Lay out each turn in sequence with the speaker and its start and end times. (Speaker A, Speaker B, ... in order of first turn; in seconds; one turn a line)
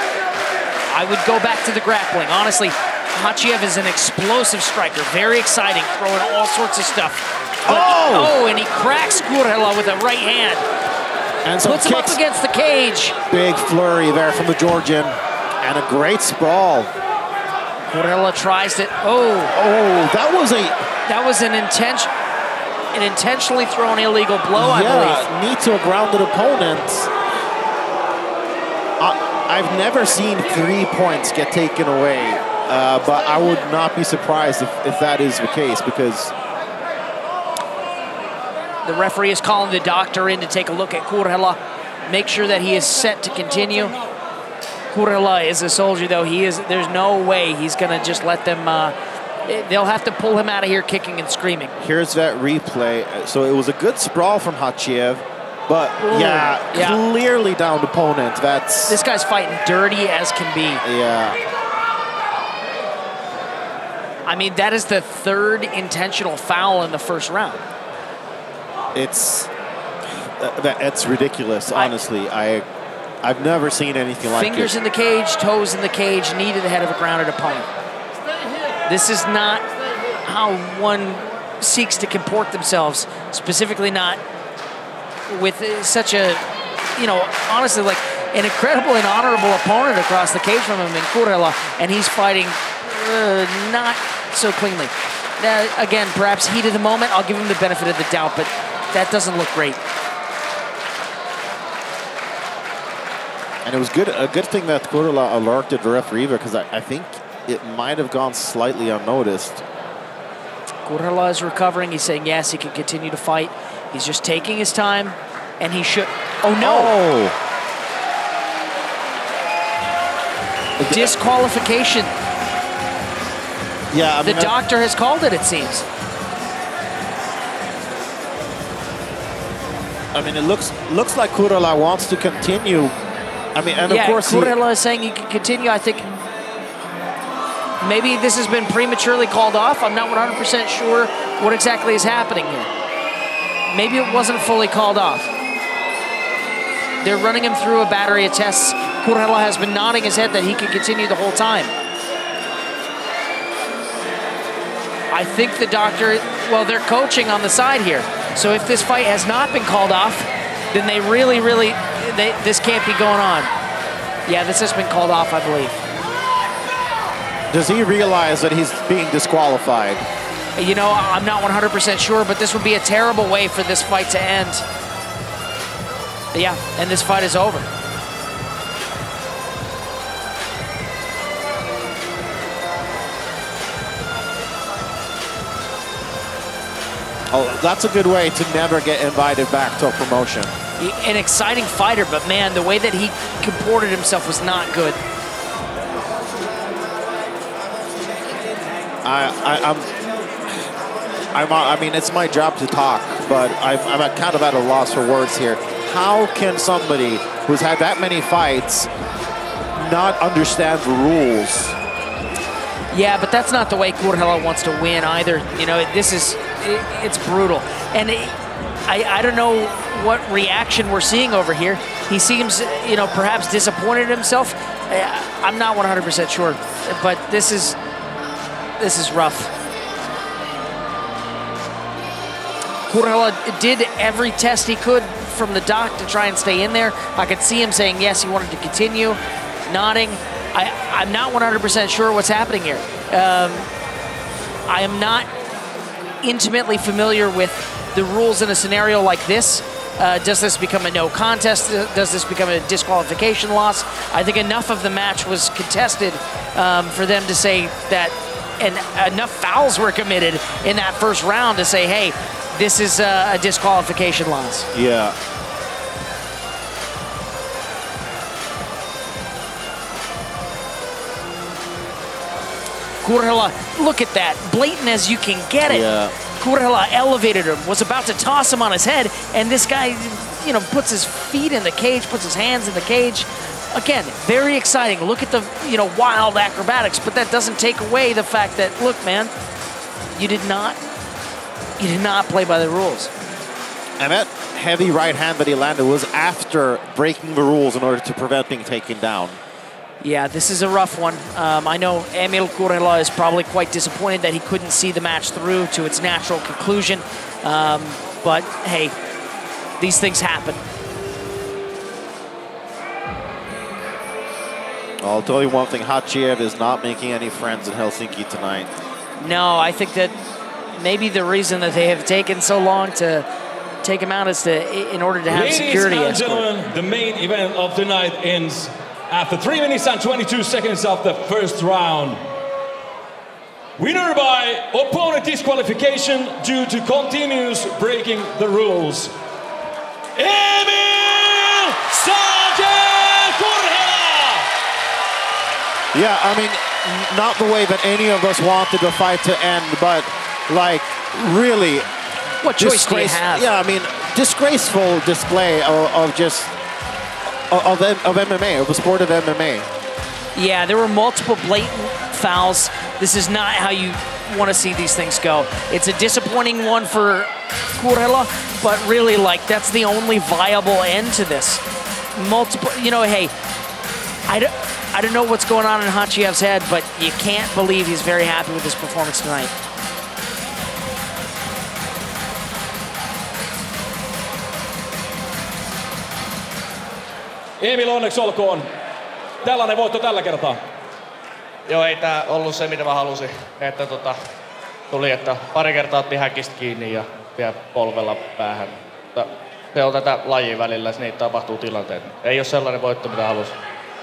Speaker A: 0.9-10.6
Speaker B: 7.7-8.4
Speaker B: 11.4-12.2
Speaker A: 11.7-13.2
Speaker B: 13.3-16.9
Speaker A: 17.9-19.5
Speaker B: 19.5-20.8
Speaker A: 21.1-22.1
Speaker A: 22.9-25.3
Speaker B: 24.5-27.1
Speaker B: 29.0-36.3
Speaker A: 38.9-44.0
Speaker A: 44.9-48.9
Speaker A: 49.5-51.7
Speaker B: 51.8-59.0
Speaker A: 56.0-57.0
Speaker A: 58.9-60.8
Speaker B: 60.8-61.4
Speaker A: 64.3-67.6
Speaker B: 68.9-69.5
Speaker B: 70.1-72.7
Speaker B: 73.2-74.8
Speaker A: 74.3-77.7
Speaker A: 78.9-79.7
Speaker A: 80.2-84.2
Speaker A: 85.3-86.4
Speaker A: 87.0-99.8
Speaker B: 103.7-109.6
Speaker A: 110.9-116.9
Speaker B: 116.6-117.4
Speaker B: 120.8-121.2
Speaker A: 120.9-122.1
Speaker B: 123.9-124.6
Speaker A: 124.2-125.9
Speaker B: 130.1-132.9
Speaker B: 133.6-134.6
Speaker A: 133.9-136.1
Speaker A: 137.8-142.7
Speaker A: 143.7-145.3
Speaker A: 147.0-151.7
Speaker A: 155.1-163.5
Speaker A: 164.3-165.8
Speaker B: 167.5-170.1
Speaker A: 170.6-174.6
Speaker A: 176.3-177.7
Speaker B: 187.3-190.6
Speaker A: 190.8-195.0
Speaker B: 199.0-199.9
Speaker B: 201.3-208.9
Speaker B: 209.7-211.8
Speaker A: 212.9-227.8
Speaker A: 228.8-229.5
Speaker A: 232.9-243.7
Speaker A: 244.7-245.3
Speaker A: 246.2-264.7
Speaker B: 264.7-265.1
Speaker A: 273.0-275.9
Speaker B: 275.6-276.1
Speaker A: 276.4-289.3
Speaker A: 290.1-290.8
Speaker A: 291.8-293.1
Speaker B: 294.0-299.4
Speaker A: 300.0-308.9
Speaker A: 309.8-310.6
Speaker B: 315.0-318.7
Speaker A: 319.2-320.1
Speaker A: 320.8-323.3
Speaker A: 323.8-326.4
Speaker C: 325.3-332.2
Speaker C: 333.8-339.1
Speaker C: 340.2-344.5
Speaker B: 345.9-351.9
Speaker A: 352.4-353.4
Speaker B: 352.6-356.5
Speaker B: 357.5-359.7
Speaker A: 360.4-371.6
Speaker A: 372.1-373.3
Speaker A: 374.3-379.5
Speaker C: 387.6-388.7
Speaker C: 389.4-390.6
Speaker D: 391.7-394.2
Speaker D: 394.9-403.6